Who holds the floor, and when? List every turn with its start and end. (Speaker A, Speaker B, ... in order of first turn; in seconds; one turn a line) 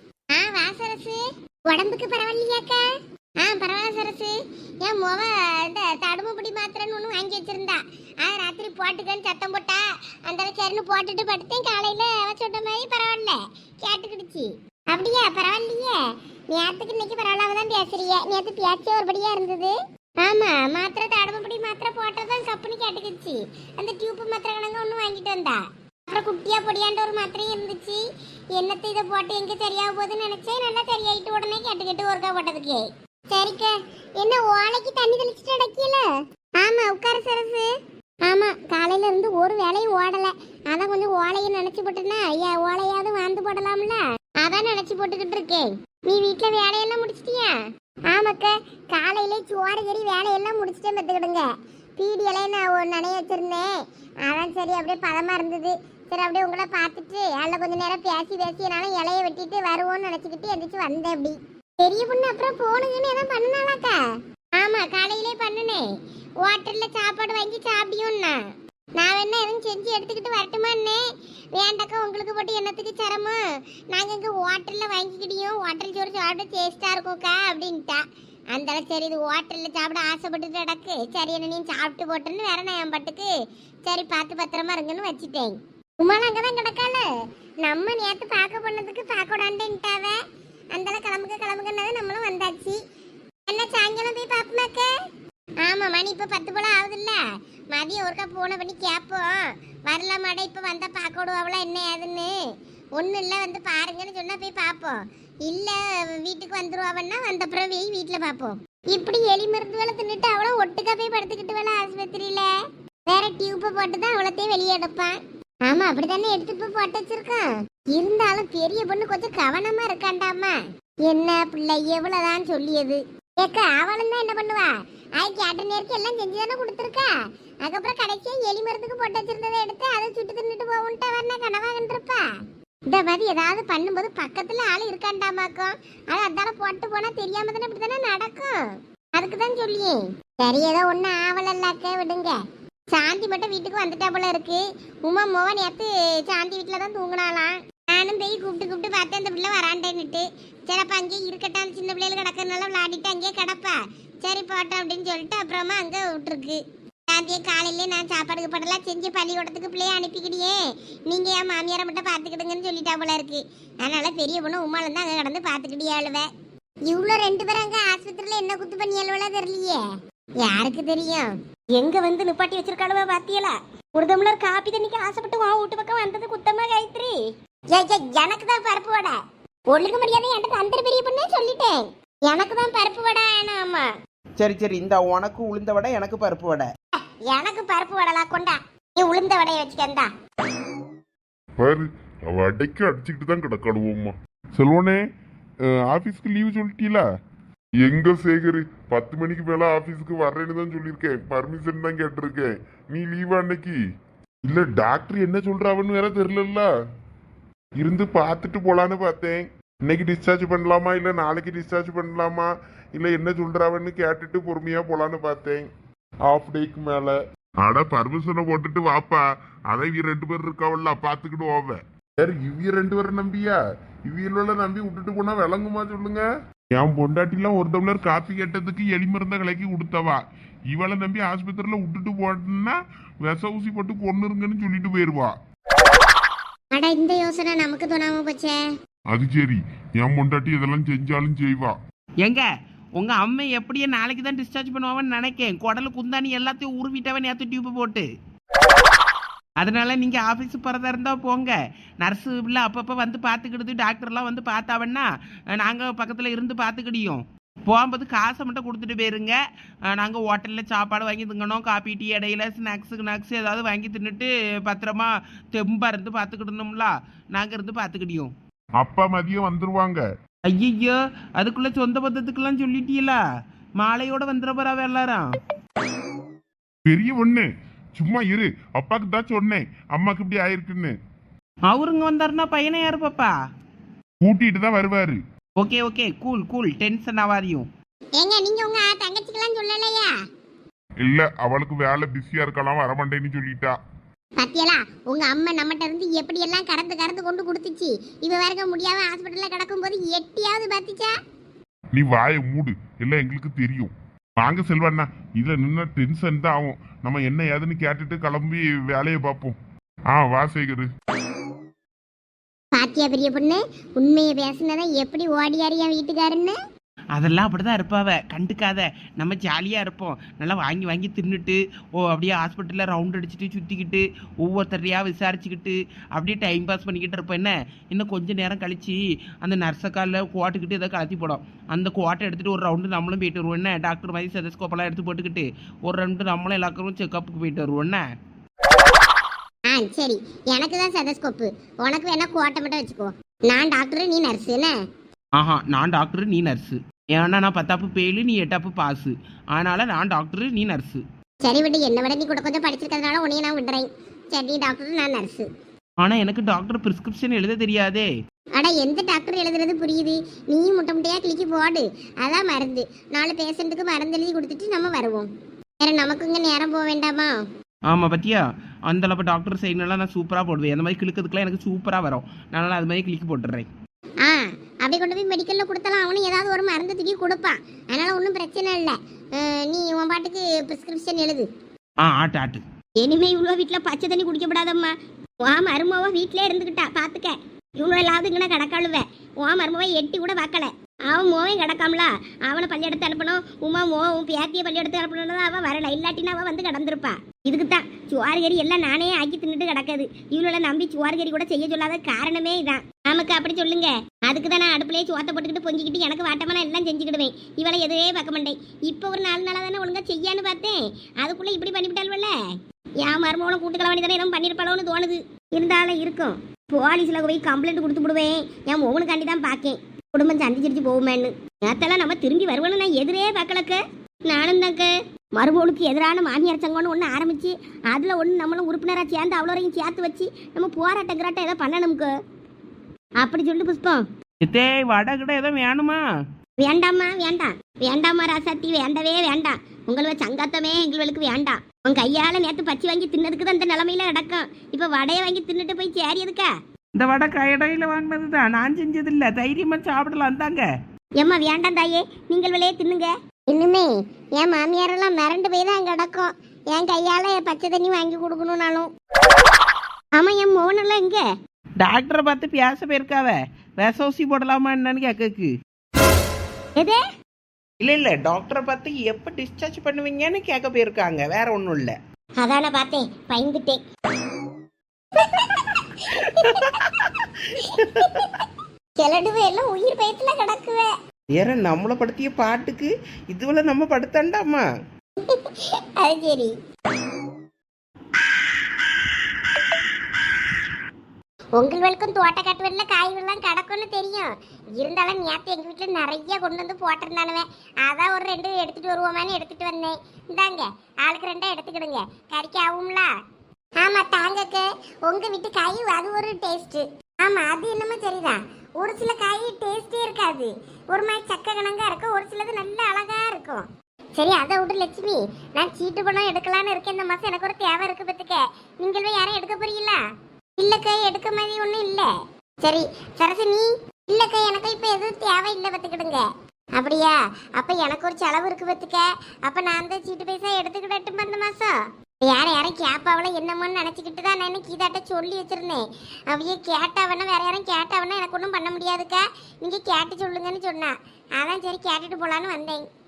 Speaker A: 0.3-2.8
Speaker A: 3.4-28.0
Speaker A: 28.6-36.0
Speaker A: 36.6-37.7
Speaker A: 38.3-47.5
Speaker A: 48.1-64.0
Speaker A: 64.6-65.8
Speaker A: 66.4-68.4
Speaker A: 69.0-71.0
Speaker A: 71.5-73.4
Speaker A: 73.9-83.3
Speaker A: 83.8-87.1
Speaker A: 87.6-90.2
Speaker A: 90.7-92.8
Speaker A: 93.5-94.9
Speaker A: 95.6-97.2
Speaker A: 97.7-102.3
Speaker A: 103.0-112.5
Speaker A: 113.1-127.1
Speaker A: 127.6-132.2
Speaker A: 132.9-138.6
Speaker A: 139.2-142.4
Speaker A: 142.9-166.3
Speaker A: 166.9-169.8
Speaker A: 170.4-177.2
Speaker A: 177.7-179.2
Speaker A: 179.7-183.9
Speaker B: 184.4-186.7
Speaker A: 187.3-190.1
Speaker C: 191.6-195.0
Speaker C: 195.7-197.0
Speaker C: 197.8-203.8
Speaker C: 204.5-206.7
Speaker C: 207.8-215.7
Speaker C: 216.3-235.3
Speaker A: 236.7-238.6
Speaker C: 239.1-241.8
Speaker B: 243.0-248.1
Speaker B: 249.6-259.4
Speaker B: 259.9-268.3
Speaker C: 268.8-270.0
Speaker B: 270.5-273.2
Speaker B: 273.8-275.3
Speaker C: 276.9-280.9
Speaker B: 281.7-283.3
Speaker C: 284.2-285.2
Speaker B: 285.6-287.7
Speaker A: 288.2-290.1
Speaker C: 291.0-293.8
Speaker A: 294.4-301.1
Speaker C: 301.9-309.6
Speaker C: 310.1-310.9
Speaker A: 312.7-316.6
Speaker B: 317.1-338.0
Speaker A: 339.7-344.8
Speaker B: 345.4-351.0
Speaker A: 351.4-355.5
Speaker B: 356.0-358.1
Speaker A: 358.6-365.3
Speaker A: 365.8-367.4
Speaker B: 367.9-373.7
Speaker A: 374.2-381.5
Speaker B: 382.0-382.6
Speaker A: 383.0-412.4
Speaker A: 413.0-432.1
Speaker A: 433.2-434.1
Speaker B: 434.4-436.0
Speaker A: 436.6-446.5
Speaker B: 446.9-450.7
Speaker A: 451.2-458.9
Speaker A: 460.2-461.3
Speaker B: 461.8-465.5
Speaker B: 467.8-472.0
Speaker A: 472.4-473.8
Speaker A: 475.2-480.9
Speaker B: 476.5-478.4
Speaker B: 481.3-484.6
Speaker A: 485.2-486.5
Speaker A: 491.6-503.1
Speaker A: 503.8-520.0
Speaker A: 520.6-522.1
Speaker A: 522.6-526.3
Speaker A: 526.8-542.8